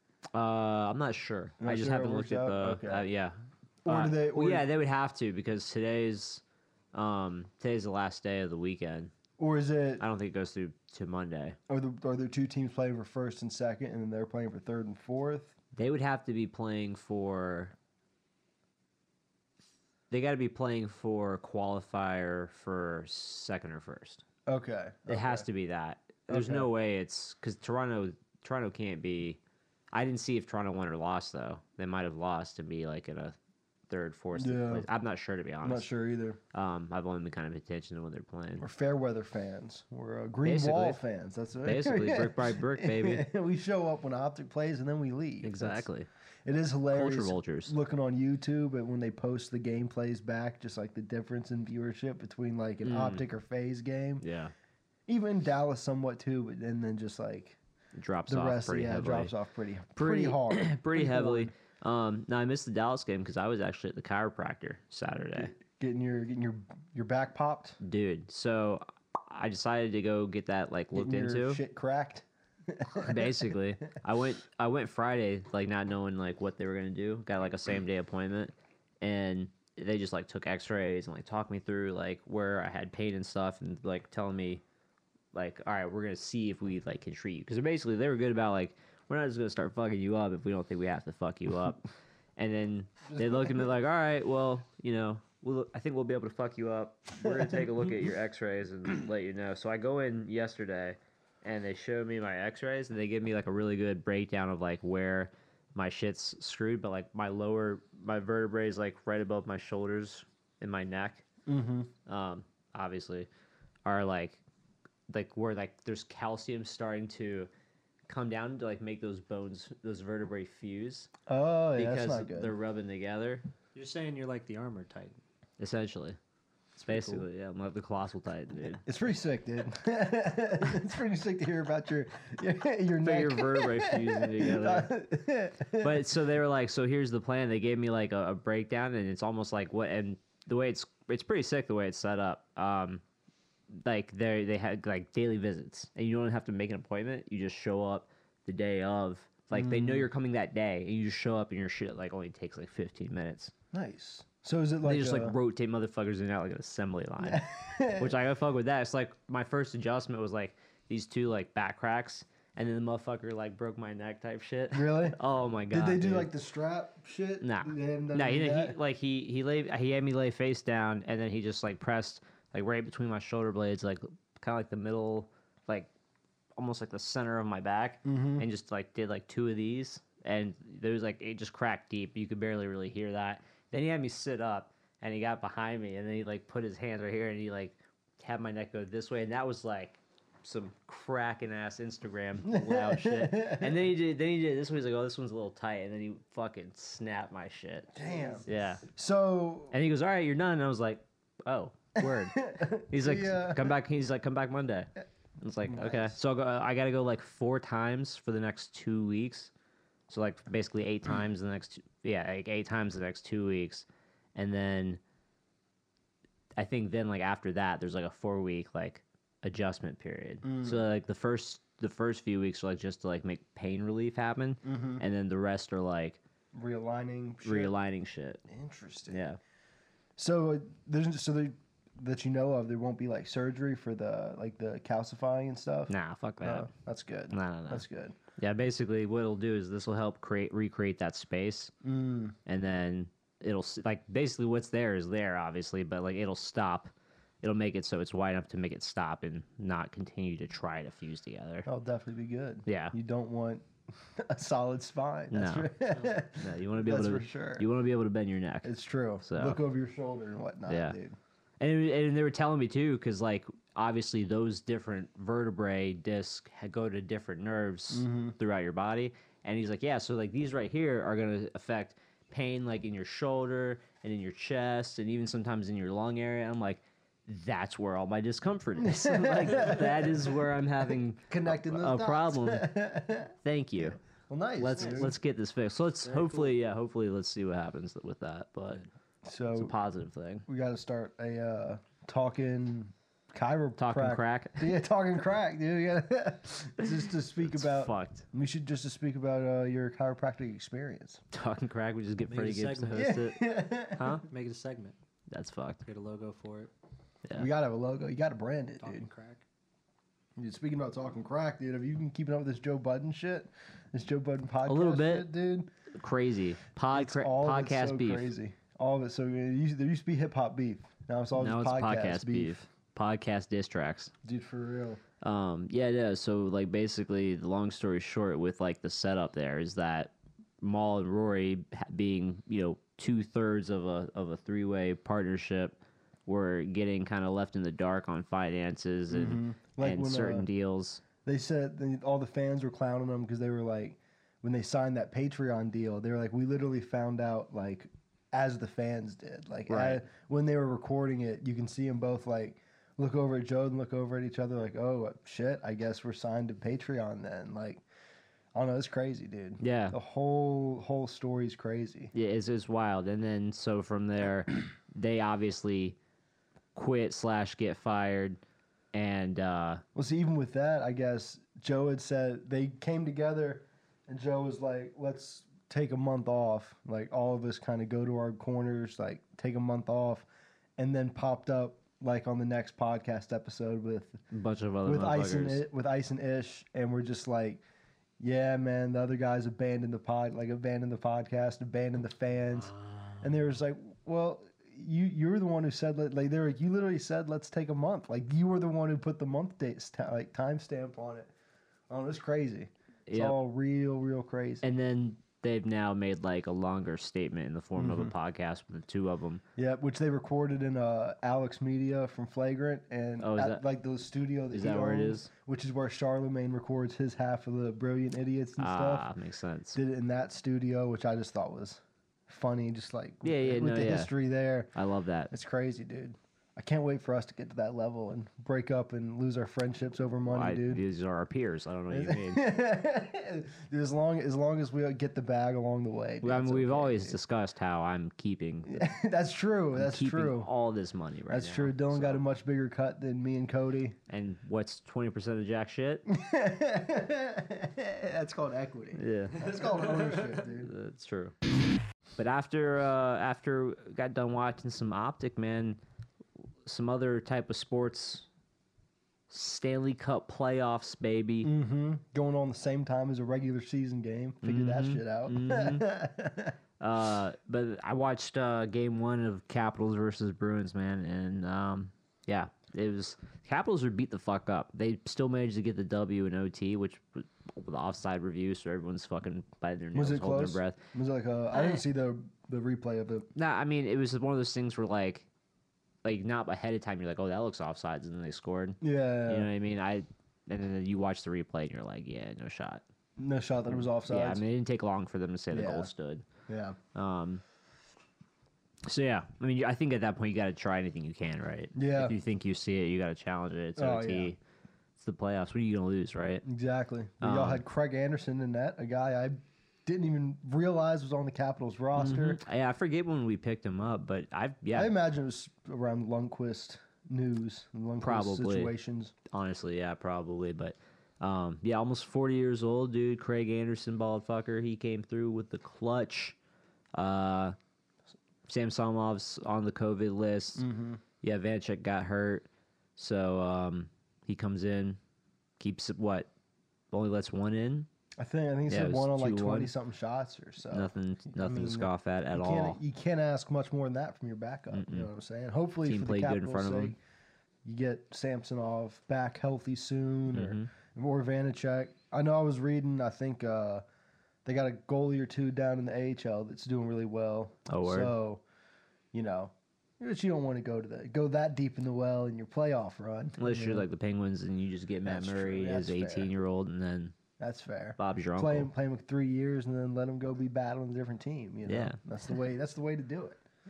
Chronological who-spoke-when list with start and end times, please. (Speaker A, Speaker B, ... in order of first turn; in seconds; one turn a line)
Speaker A: 0.3-9.1
Speaker B: 1.6-3.1
Speaker B: 3.9-4.7
Speaker B: 9.4-10.1
Speaker A: 10.0-11.6
Speaker B: 11.7-15.6
Speaker A: 15.8-17.8
Speaker A: 20.1-24.2
Speaker B: 24.5-25.4
Speaker A: 25.1-29.4
Speaker B: 26.3-26.7
Speaker A: 29.9-33.4
Speaker A: 33.9-35.9
Speaker B: 34.4-34.9
Speaker B: 35.6-36.4
Speaker A: 36.5-38.7
Speaker B: 38.6-45.9
Speaker A: 40.4-41.0
Speaker A: 41.6-43.2
Speaker A: 45.4-46.1
Speaker B: 46.5-54.2
Speaker A: 46.9-47.7
Speaker A: 52.8-53.2
Speaker A: 54.2-54.5
Speaker B: 55.1-57.6
Speaker A: 58.0-59.3
Speaker B: 58.3-61.5
Speaker A: 60.0-65.6
Speaker B: 65.4-67.8
Speaker A: 67.8-71.6
Speaker B: 70.9-73.4
Speaker A: 73.0-84.6
Speaker A: 85.3-91.9
Speaker A: 92.4-111.2
Speaker B: 93.1-93.7
Speaker B: 97.2-97.7
Speaker B: 111.5-111.9
Speaker A: 112.1-113.3
Speaker A: 113.8-114.4
Speaker A: 115.1-117.5
Speaker A: 118.1-121.1
Speaker B: 121.3-122.5
Speaker A: 121.8-123.5
Speaker C: 123.8-125.2
Speaker A: 125.6-126.2
Speaker C: 126.8-127.2
Speaker A: 126.9-128.8
Speaker B: 128.8-136.1
Speaker A: 133.0-134.9
Speaker A: 135.8-143.0
Speaker A: 143.7-153.5
Speaker B: 149.5-150.1
Speaker B: 153.7-155.4
Speaker A: 154.8-166.3
Speaker B: 157.2-158.2
Speaker B: 164.7-165.2
Speaker B: 165.7-168.8
Speaker A: 167.4-175.9
Speaker A: 176.6-198.8
Speaker B: 178.1-178.5
Speaker B: 192.5-193.9
Speaker B: 197.9-199.7
Speaker A: 199.7-209.5
Speaker B: 202.0-203.8
Speaker B: 205.7-206.2
Speaker A: 210.1-215.0
Speaker A: 216.6-226.2
Speaker B: 220.4-220.9
Speaker B: 224.6-225.0
Speaker B: 226.5-227.7
Speaker A: 227.4-228.4
Speaker B: 228.5-229.2
Speaker A: 229.1-229.4
Speaker B: 230.2-238.2
Speaker A: 235.9-236.7
Speaker A: 237.3-237.8
Speaker A: 238.4-241.7
Speaker B: 241.8-242.4
Speaker A: 242.5-251.7
Speaker B: 251.7-257.7
Speaker A: 252.7-252.9
Speaker A: 255.3-255.8
Speaker A: 256.3-258.7
Speaker B: 258.6-261.2
Speaker A: 259.2-259.6
Speaker A: 260.7-261.0
Speaker A: 261.6-282.7
Speaker B: 267.9-268.4
Speaker B: 278.8-280.3
Speaker B: 281.3-285.1
Speaker A: 283.4-284.0
Speaker A: 284.6-288.9
Speaker C: 286.1-286.5
Speaker B: 289.2-289.7
Speaker A: 289.5-290.4
Speaker B: 290.5-301.2
Speaker A: 293.8-294.7
Speaker A: 297.4-298.3
Speaker A: 301.3-304.3
Speaker C: 302.3-303.2
Speaker B: 302.9-304.2
Speaker C: 304.3-304.9
Speaker A: 305.3-305.8
Speaker C: 305.9-306.7
Speaker B: 307.4-309.1
Speaker C: 308.8-309.4
Speaker B: 310.4-315.7
Speaker A: 314.6-315.3
Speaker A: 315.9-318.3
Speaker B: 316.9-322.6
Speaker A: 321.4-324.1
Speaker B: 324.2-325.0
Speaker A: 325.2-335.8
Speaker A: 336.3-341.0
Speaker B: 339.1-340.5
Speaker B: 341.2-357.8
Speaker A: 349.7-350.0
Speaker B: 358.5-362.1
Speaker A: 359.6-360.0
Speaker A: 362.1-366.0
Speaker A: 366.8-368.4
Speaker A: 368.9-369.8
Speaker B: 369.9-380.3
Speaker B: 380.8-384.2
Speaker A: 384.3-385.6
Speaker B: 384.8-387.6
Speaker B: 388.2-401.3
Speaker B: 401.9-404.7
Speaker A: 403.1-403.4
Speaker A: 404.6-409.4
Speaker B: 407.8-408.1
Speaker B: 409.6-419.1
Speaker A: 413.2-413.6
Speaker A: 414.5-415.3
Speaker A: 418.6-419.8
Speaker B: 419.8-424.7
Speaker A: 423.2-424.1
Speaker A: 424.7-425.3
Speaker B: 425.3-430.8
Speaker A: 430.3-432.5
Speaker B: 431.9-437.2
Speaker A: 436.2-438.9
Speaker B: 438.7-440.5
Speaker A: 439.8-442.2
Speaker B: 441.3-444.0
Speaker A: 444.1-446.1
Speaker B: 446.1-450.7
Speaker A: 448.9-449.8
Speaker A: 450.6-451.4
Speaker A: 452.2-455.8
Speaker A: 456.7-458.3
Speaker A: 459.3-461.5
Speaker B: 461.4-466.6
Speaker A: 464.4-465.9
Speaker A: 466.8-480.8
Speaker B: 479.9-483.3
Speaker A: 481.5-481.8
Speaker A: 483.4-485.3
Speaker A: 486.0-492.8
Speaker B: 488.8-489.5
Speaker B: 493.2-494.4
Speaker A: 493.7-496.3
Speaker B: 495.5-495.9
Speaker B: 496.5-496.8
Speaker A: 496.9-497.4
Speaker A: 498.9-504.4
Speaker B: 501.8-502.2
Speaker B: 503.8-504.3
Speaker A: 505.0-506.4
Speaker B: 506.4-512.4
Speaker A: 507.2-507.6
Speaker A: 511.9-514.9
Speaker B: 514.7-519.1
Speaker A: 518.0-518.7
Speaker A: 519.3-526.4
Speaker A: 527.0-527.6
Speaker A: 528.5-530.6
Speaker B: 530.6-531.0
Speaker A: 531.2-535.0
Speaker A: 535.6-536.3
Speaker A: 536.9-537.9
Speaker B: 538.2-547.0
Speaker A: 538.7-539.7
Speaker A: 540.7-542.8
Speaker A: 544.7-545.1
Speaker A: 545.9-547.0
Speaker B: 547.6-553.8
Speaker A: 550.3-550.7
Speaker B: 554.5-558.4
Speaker A: 557.7-558.1
Speaker B: 559.1-563.9
Speaker A: 563.4-567.2
Speaker B: 565.0-566.3
Speaker B: 567.4-573.4
Speaker A: 568.0-568.7
Speaker A: 571.7-572.0